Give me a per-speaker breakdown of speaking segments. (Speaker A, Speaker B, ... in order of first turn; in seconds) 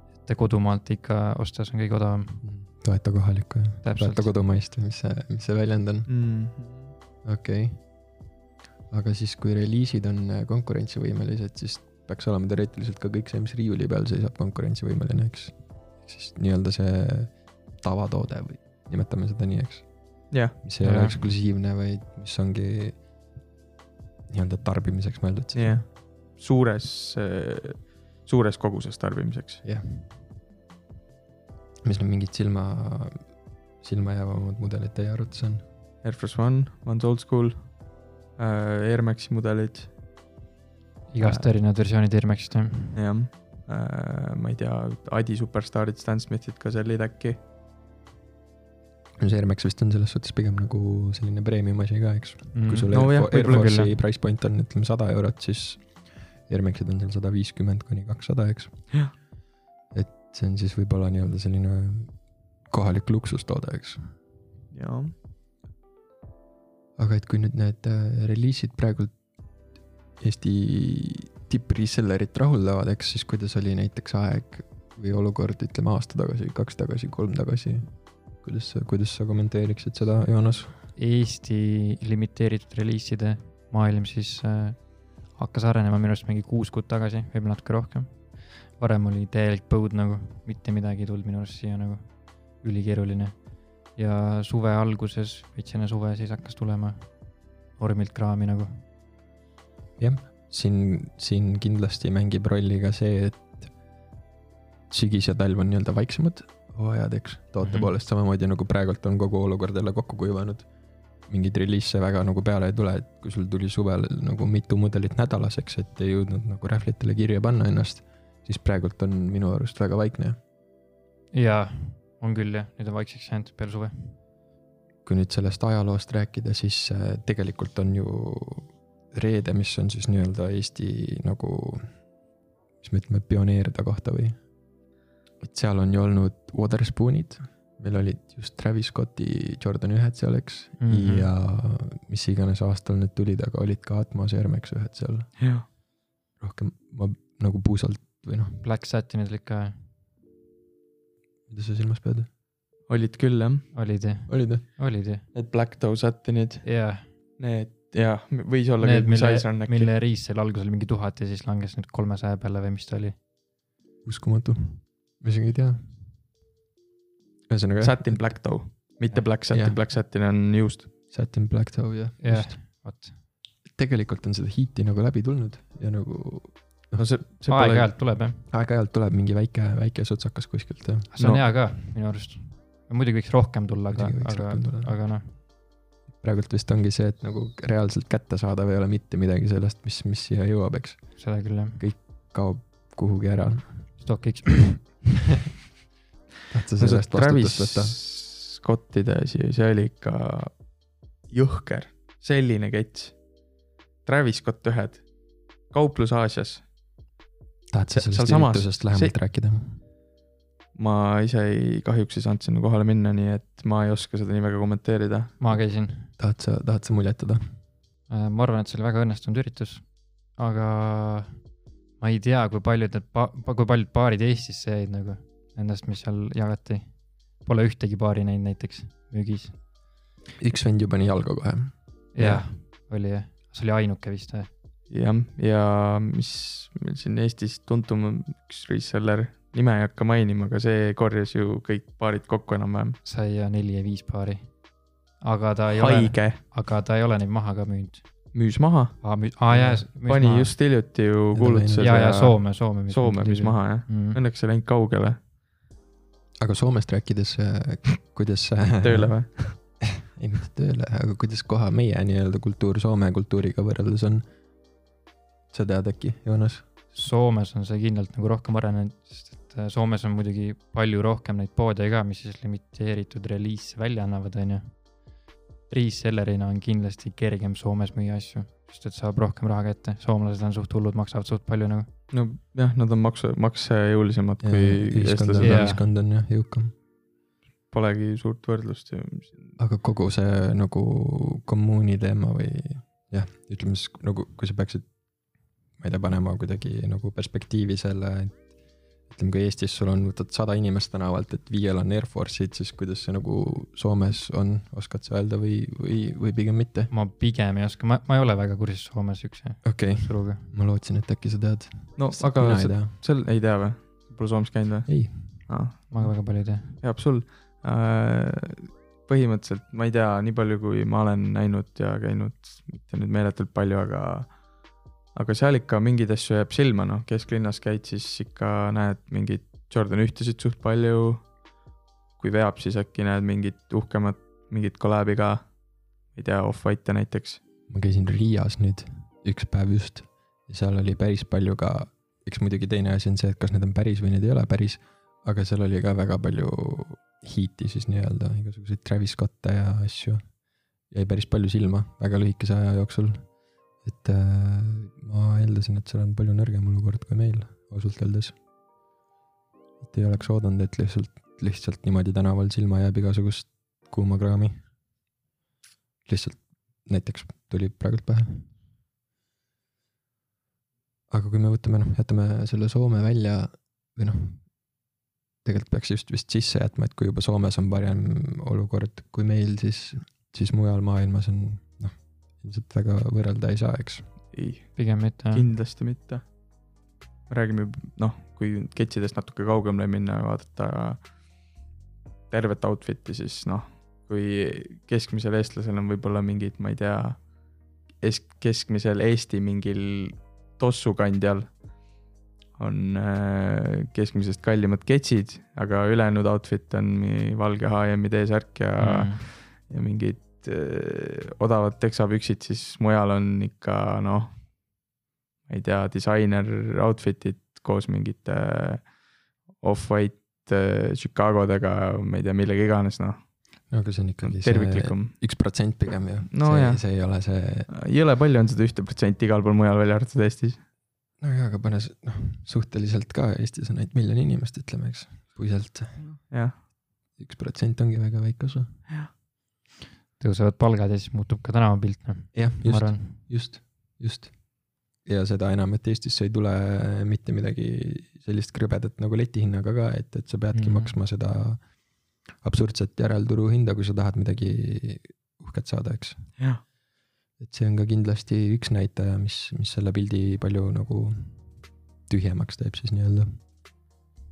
Speaker A: 0.2-2.4, 3.8-4.3, 20.8-21.2, 41.1-43.0, 52.5-53.9, 81.0-93.4, 94.0-97.1, 97.8-98.8, 107.6-107.9, 121.3-124.2, 140.8-141.3, 148.6-149.8, 153.7-155.2, 156.6-157.1, 158.8-163.2, 172.2-173.2, 177.5-178.5, 181.1-185.4, 191.2-191.8, 194.0-194.9, 215.4-216.1, 218.1-221.4, 222.0-229.6, 232.2-234.5, 243.0-244.5, 245.2-248.1, 249.0-250.5, 251.8-254.2, 266.9-274.8, 275.7-281.9, 285.4-285.8, 306.9-310.5, 315.9-316.8, 384.8-385.5, 408.8-409.2, 440.2-443.2, 450.5-450.9
Speaker B: 2.4-6.1, 7.2-7.8, 8.9-19.9, 20.6-23.0, 24.3-25.8, 29.6-30.1, 31.8-33.2, 33.8-35.6, 49.2-58.9, 59.9-62.1, 62.7-64.0, 67.0-69.1, 70.2-80.8, 100.0-103.7, 104.9-110.7, 111.3-120.4, 125.0-131.9, 132.8-134.4, 135.4-145.3, 146.4-148.6, 151.5-152.3, 154.3-154.6, 164.1-165.8, 167.5-168.4, 169.5-169.8, 171.1-172.6, 173.7-177.1, 178.5-181.1, 183.9-185.0, 186.2-193.9, 196.5-198.0, 207.7-209.8, 216.2-217.4, 230.4-231.7, 249.5-249.8, 251.3-252.0, 256.4-259.1, 259.8-264.2, 265.5-266.7, 284.4-286.7, 289.6-294.9, 295.8-298.5, 299.1-306.9, 309.6-312.9, 314.9-315.4, 337.7-350.2, 350.9-353.3, 353.8-358.4, 359.8-364.6, 366.1-368.5, 371.1-374.4, 375.4-384.1, 423.7-427.7, 431.2-436.0, 437.2-438.7, 442.3-444.3, 445.0-451.6, 452.4-456.2, 457.4-461.4, 462.1-463.3
Speaker C: 6.1-6.9, 20.3-20.6, 25.5-29.6, 36.0-37.7, 38.4-39.9, 41.2-41.5, 42.9-47.4, 52.9-53.8, 64.7-65.1, 145.4-145.7, 152.9-153.7, 155.3-156.7, 157.4-159.9, 167.8-170.9, 176.9-177.9, 196.8-200.5, 201.3-203.2, 204.1-205.0, 205.7-206.6, 207.9-209.1, 210.8-215.4, 234.9-243.0, 245.7-246.4, 248.3-249.1, 250.0-255.2, 258.8-259.6, 282.1-285.7, 287.7-289.6, 312.0-324.3, 325.1-331.2, 332.2-335.5, 336.1-337.4, 384.3-386.2, 387.3-391.0, 392.3-397.2, 398.0-401.5, 402.6-414.3, 415.5-418.9, 419.6-423.2, 424.2-425.2, 426.3-426.8, 427.7-430.6, 436.0-436.6